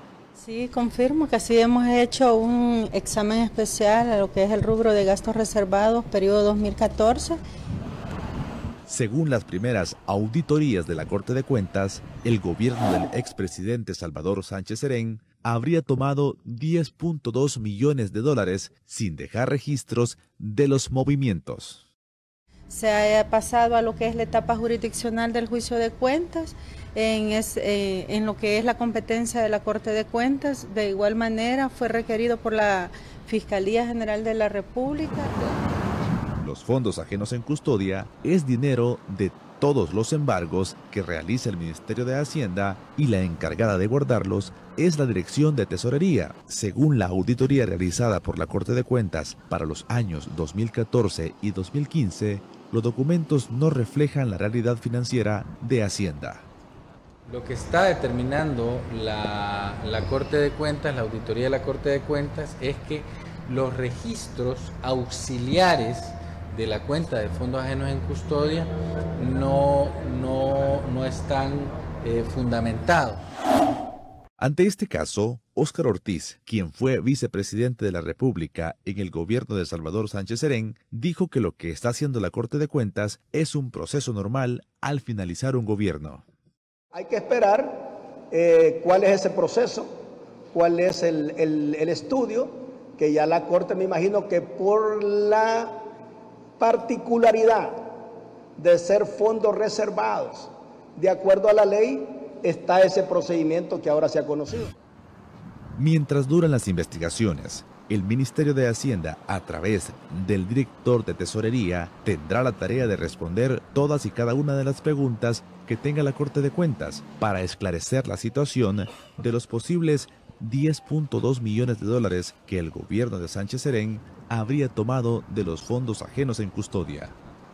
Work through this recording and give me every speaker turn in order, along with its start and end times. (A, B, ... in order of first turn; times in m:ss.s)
0:00.4-0:07.4 A
0:08.8-0:21.8 B
0:22.7-0:35.4 A
0:36.4-0:56.4 B
0:57.3-1:13.2 C
1:14.4-1:26.2 B
1:26.9-1:29.9 D
1:30.5-1:35.8 D
1:36.6-1:37.9 D
1:38.6-1:44.7 D
1:45.8-2:07.1 B